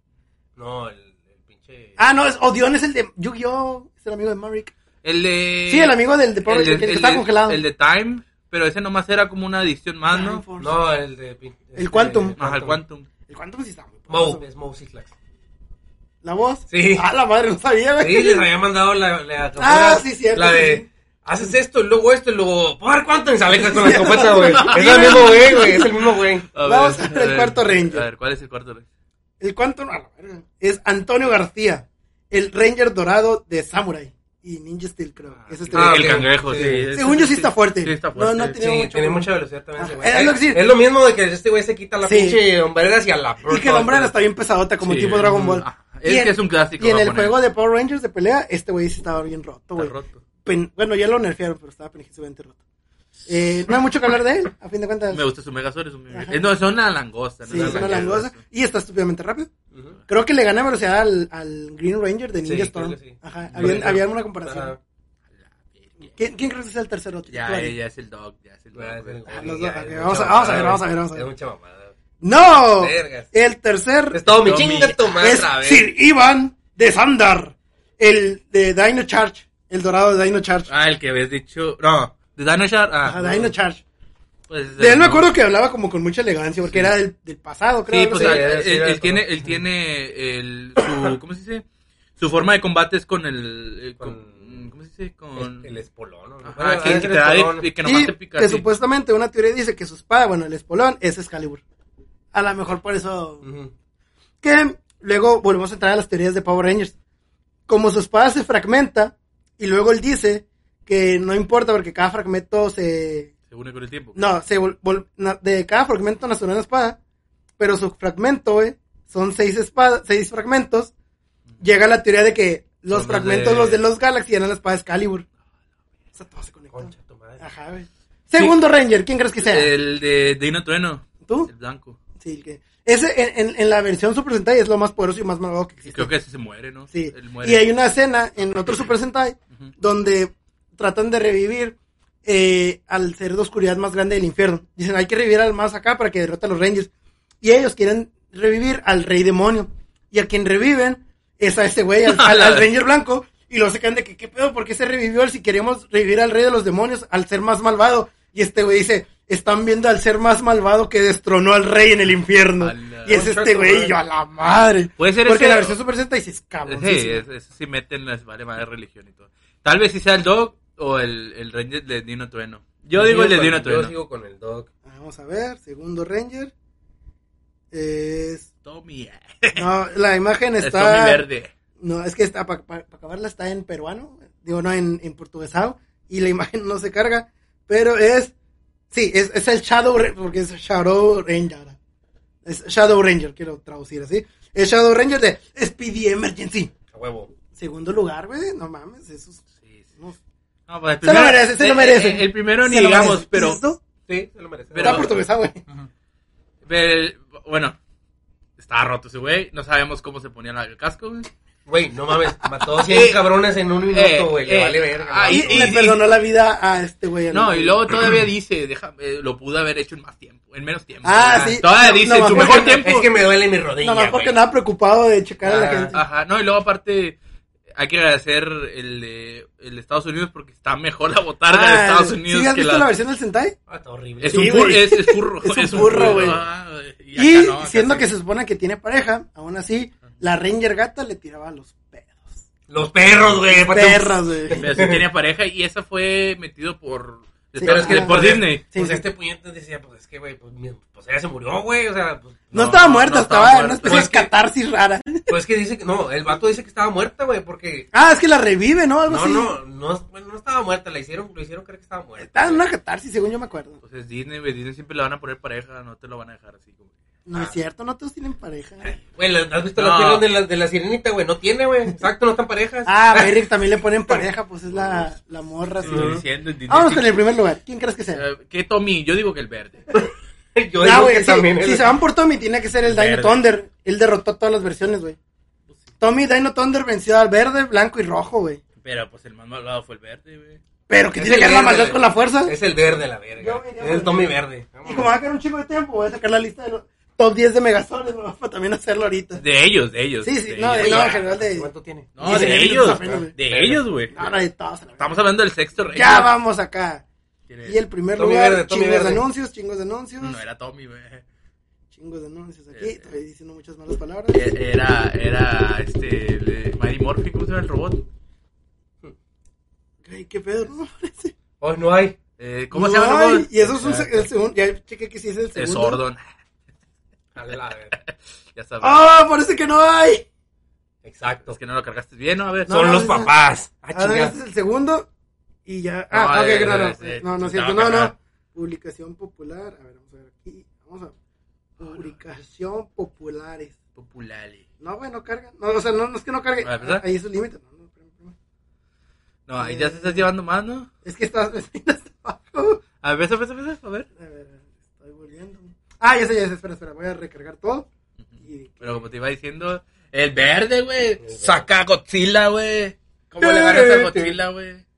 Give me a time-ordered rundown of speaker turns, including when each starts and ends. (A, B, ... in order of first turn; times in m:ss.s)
0:00.6-0:02.0 A
0:02.0-0:04.7 B
0:05.0-0:10.4 C
0:05.7-0:07.6 B
0:10.1-0:10.8 B
0:10.6-0:12.8 A
0:11.8-0:12.3 B
0:12.4-0:13.1 C
0:13.3-0:14.4 B
0:14.1-0:15.1 A
0:16.2-0:18.4 B
0:16.7-0:17.0 A
0:18.0-0:26.5 A
0:19.6-0:20.8 B
0:23.6-0:28.0 B
0:24.5-0:25.7 C
0:26.5-0:28.8 C
0:29.4-0:36.3 B
0:35.3-0:38.6 C
0:35.7-0:36.9 A
0:36.9-0:40.6 B
0:38.6-0:44.1 A
0:42.0-0:42.4 B
0:43.4-0:49.9 B
0:44.8-0:47.4 C
0:49.8-0:50.2 C
0:50.4-0:52.6 B
0:53.2-0:55.2 B
0:55.1-0:58.4 C
0:56.1-0:56.4 B
0:57.4-0:59.5 B
0:57.5-0:58.2 A
0:59.7-1:00.0 A
1:00.1-1:04.7 B
1:02.4-1:04.8 A
1:03.5-1:04.0 C
1:05.7-1:06.2 C
1:06.2-1:07.8 B
1:07.3-1:09.2 C
1:08.7-1:11.9 A
1:09.3-1:11.3 B
1:10.2-1:10.8 C
1:12.2-1:14.2 B
1:12.5-1:13.3 A
1:14.1-1:15.8 A
1:14.3-1:15.0 C
1:15.0-1:20.7 B
1:20.7-1:23.2 C
1:23.0-1:23.5 A
1:23.0-1:23.8 B
1:24.5-1:25.3 C
1:24.8-1:28.5 B
1:26.7-1:27.0 C
1:27.9-1:31.6 C
1:28.0-1:29.2 A
1:32.2-1:35.7 C
1:34.0-1:34.4 A
1:35.4-1:37.7 A
1:36.4-1:38.7 C
1:37.8-1:41.6 B
1:42.3-1:43.4 B
1:43.4-1:43.7 A
1:44.4-1:47.0 B
1:47.7-1:53.3 B
1:53.5-1:54.2 C
1:54.2-1:57.0 B
1:57.6-2:00.9 B
2:01.6-2:05.2 B
2:02.9-2:03.5 C
2:03.0-2:03.8 A
2:06.1-2:09.7 B
2:06.7-2:07.5 A
2:09.4-2:12.0 C
2:11.2-2:11.5 B
2:12.2-2:16.1 B
2:15.9-2:17.7 C
2:16.9-2:26.9 B
2:27.4-2:47.2 B
2:32.0-2:32.7 C
2:42.6-2:43.2 C
2:43.0-2:43.9 A
2:45.0-2:45.8 C
2:46.6-2:53.9 C
2:52.9-2:54.7 A
2:54.8-2:56.5 B
2:57.7-2:58.5 B
2:58.6-2:59.7 C
2:59.6-3:01.2 B
3:00.6-3:01.5 C
3:01.8-3:08.3 B
3:08.9-3:11.8 B
3:12.4-3:16.7 B
3:16.9-3:17.3 A
3:17.5-3:19.4 B
3:20.7-3:23.6 C
3:21.0-3:23.8 B
3:24.1-3:25.2 A
3:24.7-3:25.2 C
3:24.8-3:25.6 B
3:26.6-3:27.8 C
3:28.6-3:31.3 C
3:31.6-3:35.8 A
3:32.8-3:33.3 C
3:33.9-3:36.0 C
3:35.2-3:37.8 B
3:37.3-3:43.1 C
3:41.0-3:42.9 B
3:41.3-3:41.6 A
3:42.2-3:44.4 A
3:43.8-3:46.0 B
3:45.4-3:45.9 A
3:45.9-3:47.2 C
3:47.7-3:52.9 C
3:51.5-3:53.6 B
3:53.7-3:54.7 A
3:54.2-3:58.1 C
3:54.3-3:56.4 B
3:55.7-3:56.4 A
3:57.2-4:02.4 B
4:02.7-4:05.0 A
4:03.2-4:04.8 B
4:04.6-4:08.6 C
4:07.6-4:09.0 B
4:07.6-4:12.5 A
4:12.5-4:15.3 B
4:12.5-4:14.1 C
4:13.8-4:14.3 A
4:15.3-4:17.9 A
4:17.9-4:19.6 B
4:19.1-4:22.6 A
4:22.2-4:23.8 B
4:23.8-4:26.9 C
4:27.2-4:29.0 B
4:28.8-4:33.4 A
4:29.8-4:30.2 C
4:32.8-4:38.2 B
4:35.8-4:36.2 A
4:35.8-4:37.1 C
4:38.1-4:39.8 C
4:39.9-4:42.0 A
4:40.8-4:45.2 B
4:42.8-4:43.4 C
4:46.0-4:48.6 B
4:48.8-4:50.6 C
4:50.9-4:52.6 B
4:51.2-4:55.1 A
4:53.4-4:59.4 B
4:59.4-5:01.2 C
5:00.2-5:03.3 B
5:00.7-5:04.3 A
5:02.2-5:04.1 C
5:04.1-5:05.1 B
5:05.0-5:06.3 C
5:05.9-5:07.0 B
5:07.5-5:07.8 C
5:07.6-5:10.4 B
5:08.2-5:09.2 A
5:10.2-5:11.2 C
5:11.9-5:14.4 B
5:12.7-5:13.0 C
5:14.3-5:18.0 C
5:20.0-5:21.3 B
5:21.6-5:22.2 A
5:22.4-5:24.3 C
5:22.7-5:26.0 B
5:25.6-5:26.2 C
5:27.3-5:27.9 A
5:27.9-5:29.0 C
5:28.8-5:30.2 B
5:31.0-5:31.5 A
5:31.5-5:32.8 C
5:32.7-5:33.3 B
5:32.7-5:34.3 A
5:33.9-5:35.1 B
5:35.6-5:41.1 B
5:36.1-5:38.1 C
5:41.8-5:43.8 B
5:44.0-5:44.6 C
5:44.8-5:48.3 B
5:46.6-5:47.0 C
5:49.5-5:50.9 C
5:49.6-5:50.2 B
5:51.0-5:52.8 B
5:53.0-5:54.1 C
5:54.2-5:57.9 B
5:58.4-5:59.0 B
5:58.8-6:04.8 C
6:01.2-6:01.7 A
6:03.4-6:04.3 A